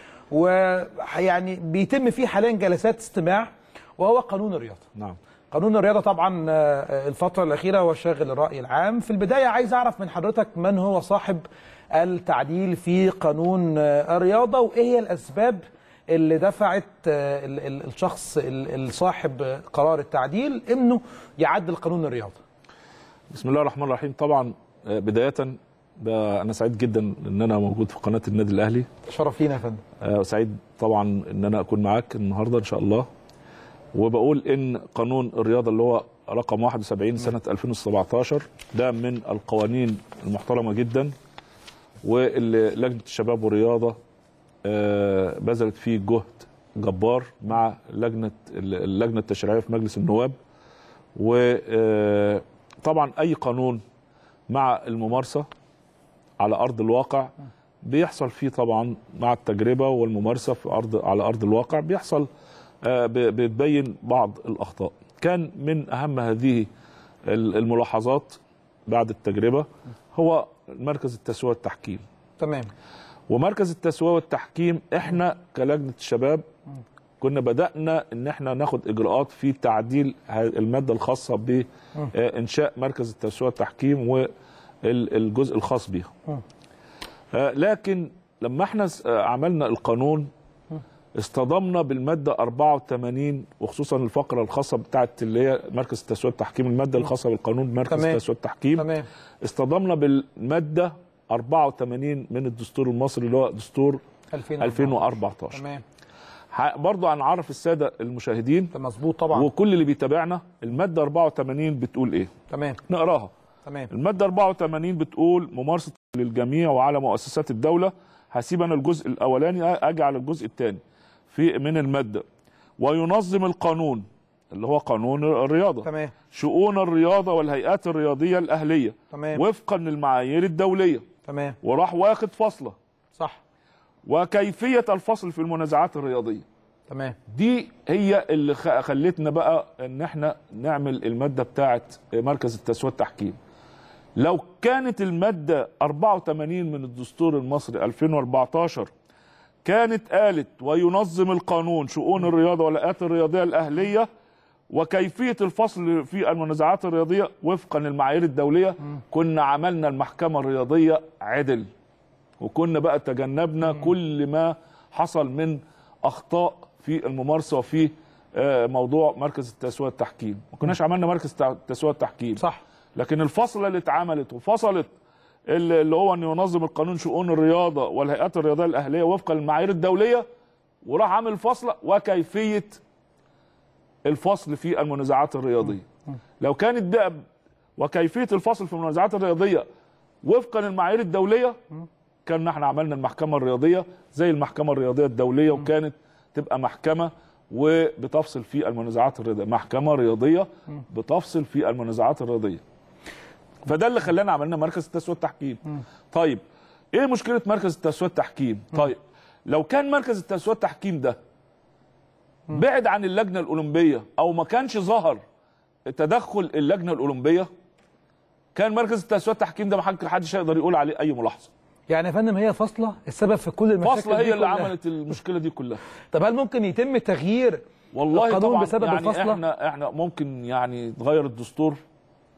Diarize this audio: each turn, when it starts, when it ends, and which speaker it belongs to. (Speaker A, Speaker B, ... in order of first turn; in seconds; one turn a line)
Speaker A: 0.3-4.8
Speaker A: 5.5-22.4
Speaker B: 23.3-28.9
Speaker A: 29.1-29.8
Speaker B: 30.0-33.1
Speaker B: 33.9-41.1
Speaker B: 42.0-44.0
Speaker B: 44.6-50.4
Speaker B: 51.2-53.8
Speaker B: 54.5-55.5
Speaker B: 56.4-62.3
Speaker B: 62.8-66.7
Speaker B: 67.3-72.0
Speaker A: 72.4-72.7
Speaker B: 73.3-76.4
Speaker B: 77.2-84.3
Speaker B: 84.8-86.1
Speaker B: 87.3-90.3
Speaker B: 91.2-98.9
Speaker A: 97.9-98.2
Speaker A: 98.8-99.1
Speaker B: 99.4-104.0
Speaker A: 104.3-105.8
Speaker B: 104.6-105.6
Speaker B: 106.5-108.7
Speaker A: 108.7-109.5
Speaker B: 109.3-112.3
Speaker A: 112.5-112.8
Speaker B: 112.9-113.3
Speaker B: 113.9-122.2
Speaker B: 122.8-131.1
Speaker A: 125.8-126.1
Speaker A: 129.1-129.4
Speaker A: 131.3-131.6
Speaker B: 131.6-132.8
Speaker B: 134.1-136.4
Speaker A: 136.9-137.2
Speaker B: 137.3-143.4
Speaker B: 144.2-148.9
Speaker B: 149.6-154.1
Speaker B: 154.7-161.7
Speaker B: 162.4-172.4
Speaker B: 173.0-174.9
Speaker B: 175.5-180.3
Speaker B: 180.8-182.8
Speaker B: 184.1-185.9
Speaker B: 186.4-187.2
Speaker B: 187.8-189.7
Speaker B: 190.2-191.6
Speaker B: 192.3-202.6
Speaker B: 203.6-206.4
Speaker B: 206.9-211.2
Speaker B: 212.5-215.2
Speaker B: 215.9-217.5
Speaker B: 218.5-221.5
Speaker A: 221.9-224.7
Speaker B: 223.8-225.8
Speaker A: 226.1-227.6
Speaker B: 227.9-231.8
Speaker A: 228.1-229.4